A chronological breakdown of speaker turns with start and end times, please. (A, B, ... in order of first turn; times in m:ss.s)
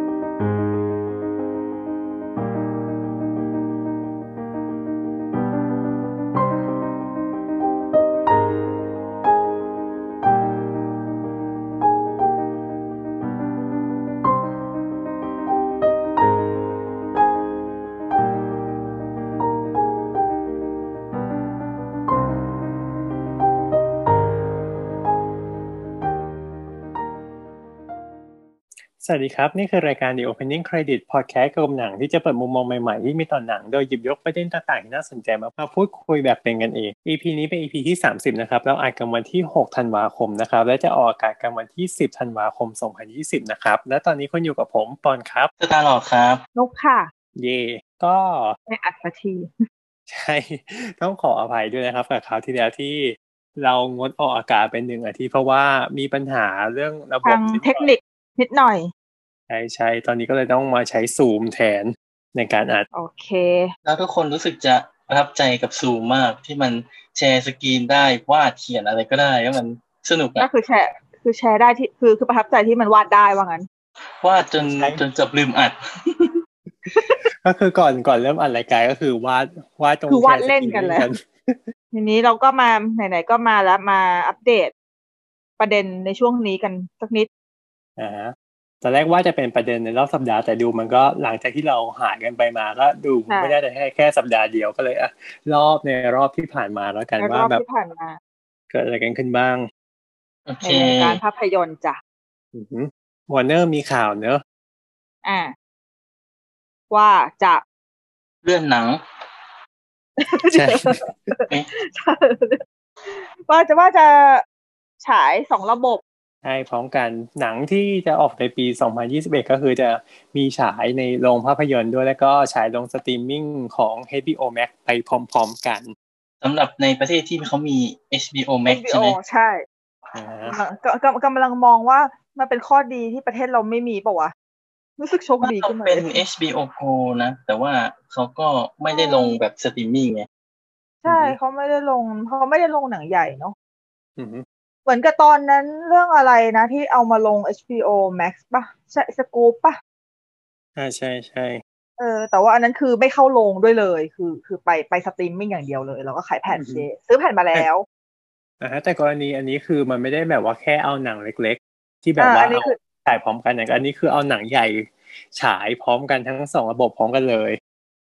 0:29.0-0:45.5 A
0:45.6-0:46.4 B
0:46.6-0:47.1 C
0:47.4-0:48.6 A
0:48.7-0:49.5 C
0:50.1-0:57.8 A
0:57.2-0:58.9 C
0:59.5-1:02.9 A
1:02.9-1:03.7 C
1:03.8-1:10.5 B
1:10.4-1:13.7 C
1:14.2-1:16.3 B
1:14.6-1:15.0 A
1:16.9-1:17.2 C
1:17.4-1:21.6 A
1:20.1-1:21.1 C
1:21.9-1:24.7 C
1:25.6-1:27.3 C
1:28.0-1:37.6 A
1:33.3-1:33.6 C
1:37.2-1:38.2 C
1:38.7-1:39.7 A
1:40.5-1:41.2 B
1:40.6-1:42.0 C
1:42.5-1:44.4 A
1:45.2-1:45.5 C
1:46.9-1:47.6 C
1:48.4-1:49.0 B
1:50.2-1:54.4 C
1:50.5-1:51.0 A
1:55.0-1:56.0 C
1:56.4-2:05.9 A
2:06.4-2:09.2 B
2:08.7-2:09.6 C
2:10.1-2:10.5 A
2:10.5-2:14.3 C
2:15.0-2:16.2 C
2:15.4-2:20.3 B
2:18.9-2:19.4 C
2:21.0-2:23.5 C
2:21.1-2:21.4 A
2:24.2-2:24.4 A
2:24.9-2:29.8 C
2:30.8-2:31.6 A
2:32.0-2:37.8 C
2:36.5-2:36.9 A
2:38.6-2:47.6 A
2:42.2-2:42.8 C